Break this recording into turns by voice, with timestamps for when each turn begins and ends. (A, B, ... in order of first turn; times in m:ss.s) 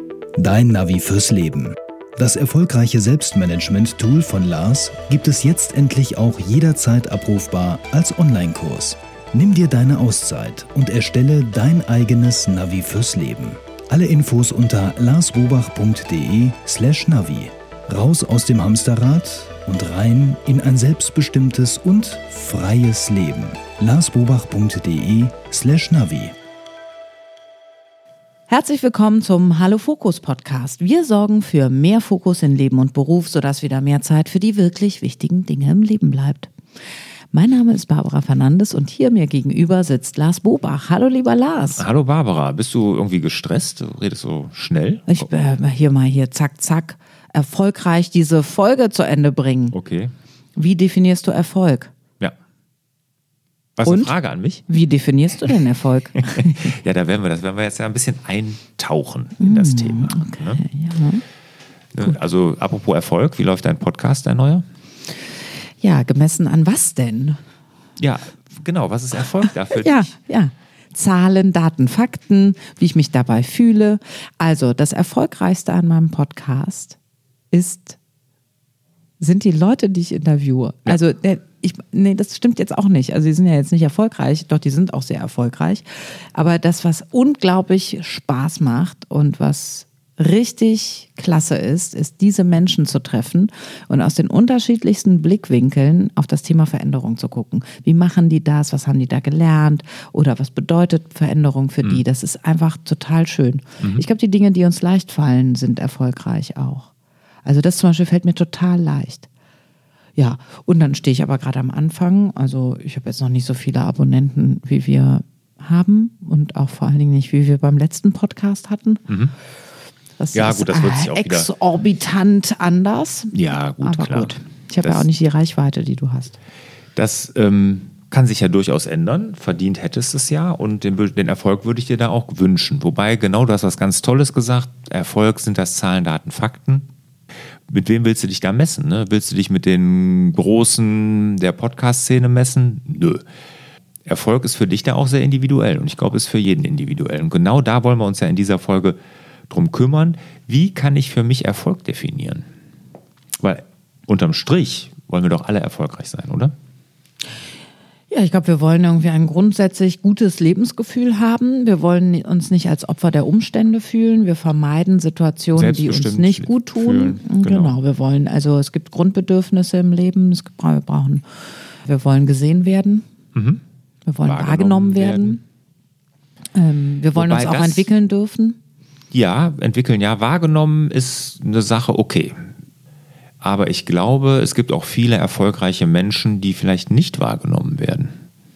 0:00.4-0:26.4 A
0:28.5-0:36.5 B
0:37.3-0:41.8 B
0:41.8-0:45.3 C
0:45.1-0:49.8 B
0:49.7-0:50.1 C
0:50.6-0:51.9 B
0:53.8-0:54.6 C
0:53.8-0:54.1 B
0:54.7-0:56.8 B
0:56.3-1:00.6 C
0:59.4-1:01.2 B
1:01.9-1:04.6 C
1:05.8-1:07.4 B
1:08.0-1:10.1 C
1:09.7-1:17.0 B
1:17.5-1:18.0 B
1:19.2-1:46.9 B
1:47.4-1:49.3 B
1:50.2-1:59.0 B
1:59.1-1:59.3 C
2:00.2-2:06.4 B
2:00.3-2:01.5 C
2:03.3-2:05.0 C
2:07.0-2:16.9 C
2:17.7-2:23.2 C
2:24.0-2:29.0 C
2:29.5-2:32.4 C
2:33.4-2:36.5 C
2:38.1-2:53.0 B
2:45.5-2:47.8 C
2:53.3-2:53.6 C
2:54.0-2:55.4 B
2:54.2-2:55.4 C
2:56.5-2:58.6 B
2:57.1-2:57.9 C
2:59.1-3:02.5 C
3:03.4-3:08.1 C